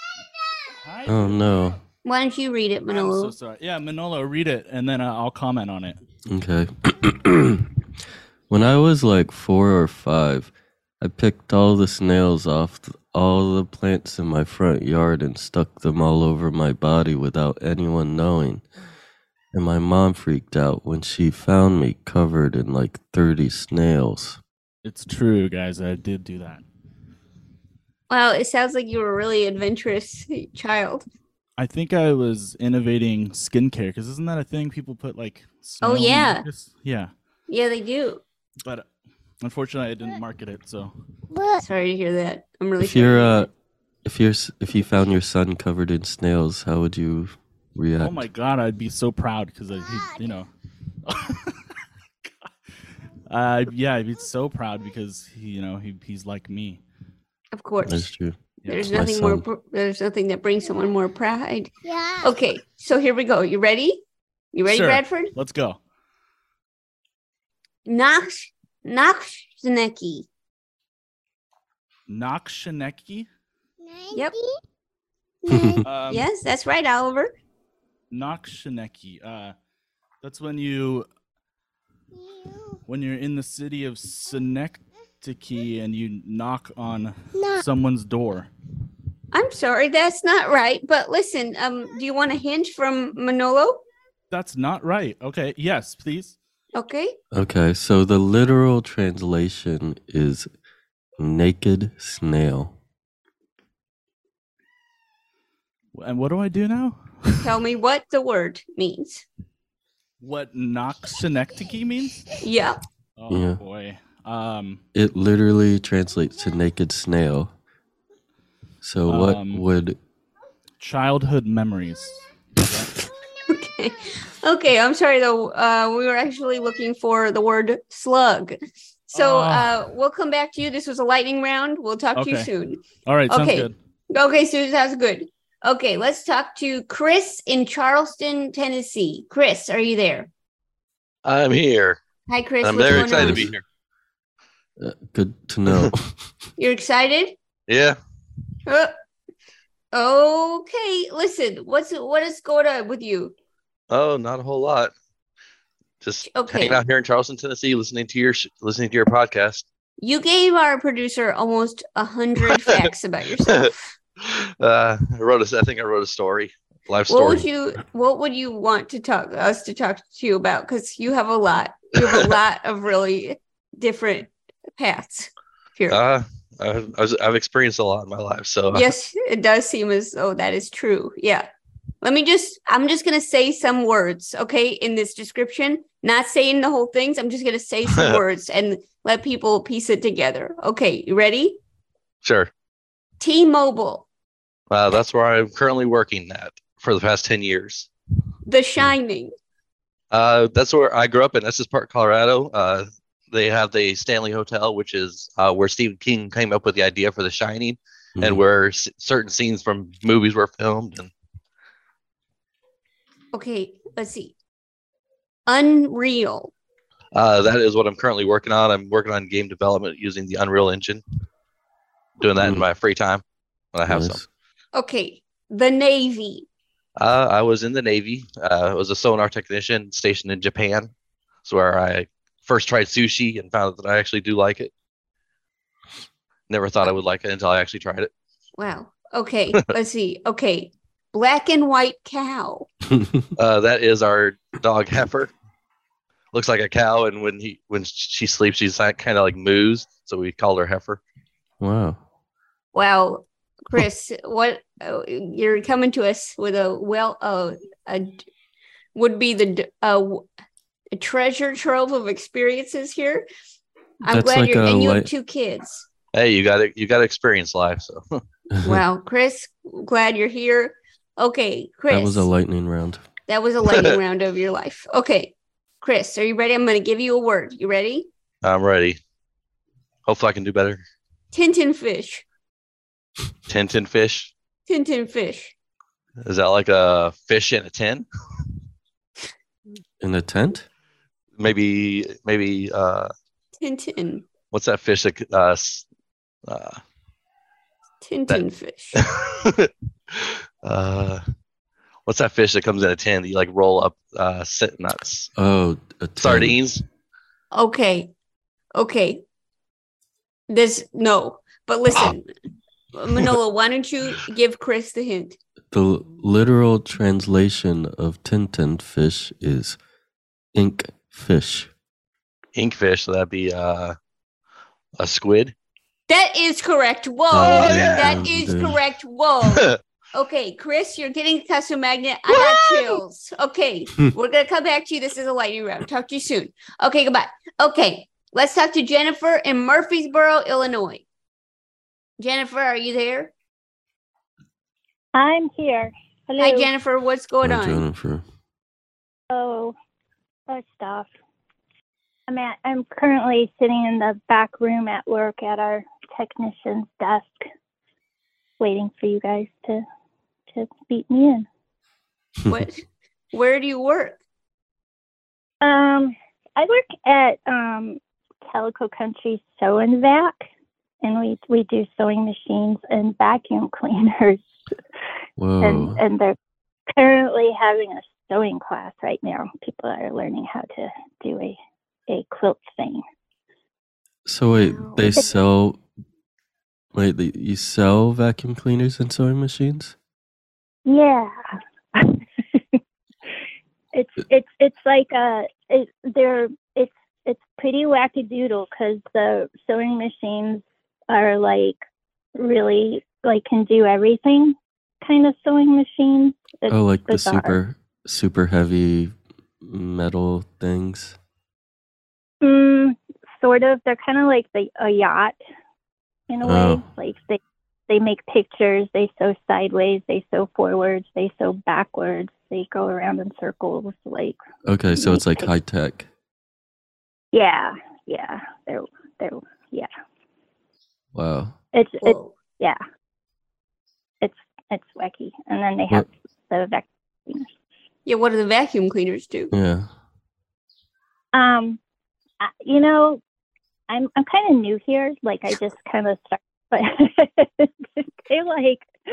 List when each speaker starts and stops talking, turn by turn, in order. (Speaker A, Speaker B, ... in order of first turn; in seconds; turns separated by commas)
Speaker A: 0.8-1.4, Speaker B: 1.1-1.8, Speaker C: 2.0-3.3, Speaker A: 2.9-6.0, Speaker B: 6.3-7.7, Speaker B: 8.5-18.6, Speaker B: 19.5-24.4, Speaker A: 24.8-26.6, Speaker C: 28.1-31.0, Speaker A: 31.6-37.1, Speaker C: 35.8-36.5, Speaker C: 37.5-38.2, Speaker A: 39.4-40.9, Speaker C: 41.6-43.5, Speaker B: 42.8-43.5, Speaker B: 44.0-48.3, Speaker A: 48.0-50.5, Speaker A: 51.0-51.8, Speaker A: 53.3-56.8, Speaker C: 57.5-58.1, Speaker B: 57.8-58.4, Speaker A: 58.6-58.9, Speaker C: 58.6-64.0, Speaker B: 58.9-59.4, Speaker C: 64.5-65.3, Speaker A: 64.6-65.8, Speaker C: 67.8-70.3, Speaker A: 72.1-73.3, Speaker C: 74.1-74.4, Speaker B: 75.5-75.8, Speaker A: 75.8-76.2, Speaker C: 76.1-77.3, Speaker A: 78.1-79.5, Speaker A: 80.2-81.1, Speaker A: 82.9-88.5, Speaker C: 89.3-93.8, Speaker A: 94.3-96.3, Speaker C: 96.7-97.2, Speaker B: 97.3-100.5, Speaker B: 101.2-102.7, Speaker A: 105.9-107.5, Speaker C: 107.4-109.2, Speaker A: 110.2-112.2, Speaker C: 112.4-112.8, Speaker A: 113.2-114.8, Speaker B: 113.3-113.6, Speaker B: 114.9-117.5, Speaker B: 118.8-120.0, Speaker A: 119.1-119.6, Speaker A: 120.8-122.9, Speaker C: 123.5-128.6, Speaker A: 129.1-129.8, Speaker C: 129.1-140.3, Speaker A: 132.1-132.5, Speaker A: 133.0-133.8, Speaker D: 141.2-142.0, Speaker C: 142.3-143.5, Speaker D: 142.6-143.6, Speaker B: 142.9-143.5, Speaker B: 144.8-146.1, Speaker C: 146.6-147.3, Speaker D: 147.7-148.0, Speaker C: 148.7-148.9, Speaker C: 149.9-153.3, Speaker D: 153.9-154.9, Speaker D: 156.0-159.6, Speaker C: 156.2-156.8, Speaker C: 160.0-163.9, Speaker D: 162.5-162.8, Speaker D: 164.2-167.4, Speaker C: 167.1-176.0, Speaker D: 175.9-178.9, Speaker C: 178.7-181.4, Speaker C: 182.0-191.6, Speaker D: 187.9-188.2, Speaker D: 192.2-192.5, Speaker C: 193.2-194.1, Speaker D: 194.7-197.9, Speaker C: 198.4-199.3, Speaker D: 200.1-211.1, Speaker B: 208.2-208.4, Speaker C: 213.3-214.3, Speaker C: 215.5-216.5, Speaker D: 217.1-221.0, Speaker D: 222.2-223.2, Speaker B: 222.4-222.7, Speaker D: 223.7-224.2, Speaker B: 223.9-224.2, Speaker C: 224.7-226.5, Speaker D: 227.0-230.9, Speaker D: 231.4-234.7, Speaker D: 236.5-238.1, Speaker C: 238.5-242.7, Speaker D: 243.4-245.3, Speaker D: 246.3-251.0, Speaker B: 251.6-252.0, Speaker C: 252.7-258.2, Speaker C: 258.9-260.2, Speaker C: 260.9-263.3, Speaker C: 264.0-265.9, Speaker B: 264.1-265.1, Speaker D: 266.1-268.2, Speaker C: 268.6-272.3, Speaker B: 271.9-273.0, Speaker C: 273.3-278.1, Speaker D: 278.4-279.0, Speaker D: 280.1-280.8, Speaker C: 281.3-282.2, Speaker D: 283.5-284.3, Speaker C: 284.7-285.5, Speaker D: 286.2-288.0, Speaker B: 290.0-290.7, Speaker D: 291.4-293.1, Speaker C: 293.6-294.2, Speaker D: 294.5-295.9, Speaker D: 296.5-296.8, Speaker C: 298.0-299.0, Speaker D: 299.0-301.2, Speaker D: 302.1-305.3, Speaker B: 305.3-306.6, Speaker D: 306.2-306.8, Speaker C: 307.5-308.1, Speaker C: 308.7-309.2, Speaker C: 310.5-312.3, Speaker C: 312.9-315.4, Speaker B: 315.7-319.8, Speaker B: 320.5-321.7, Speaker D: 322.5-323.9, Speaker D: 325.0-325.5, Speaker C: 326.1-341.0, Speaker B: 327.3-328.8, Speaker D: 327.4-328.1, Speaker D: 329.5-329.8, Speaker C: 342.2-343.3, Speaker E: 345.1-346.7, Speaker C: 346.4-347.8, Speaker B: 347.4-348.2, Speaker E: 349.3-349.7, Speaker E: 350.5-351.1, Speaker E: 352.3-357.4, Speaker E: 358.6-359.8, Speaker E: 360.5-361.4, Speaker C: 362.5-364.2, Speaker E: 365.6-370.4, Speaker E: 371.0-374.4, Speaker B: 375.4-376.0, Speaker E: 375.6-376.4, Speaker E: 377.0-383.0, Speaker B: 384.2-385.8, Speaker C: 384.6-385.3, Speaker B: 386.9-389.9, Speaker E: 390.9-391.3, Speaker E: 393.9-401.8, Speaker E: 402.4-407.6, Speaker B: 406.7-411.2, Speaker E: 412.4-415.4, Speaker E: 416.3-424.4, Speaker B: 416.4-416.8, Speaker B: 424.6-426.1, Speaker E: 424.9-425.5, Speaker E: 427.3-429.9, Speaker B: 431.1-431.6, Speaker E: 431.7-432.8, Speaker C: 432.0-432.4, Speaker E: 434.2-437.5, Speaker C: 438.0-439.5, Speaker B: 439.5-439.9, Speaker E: 441.3-441.8, Speaker E: 442.4-443.2, Speaker E: 443.9-448.9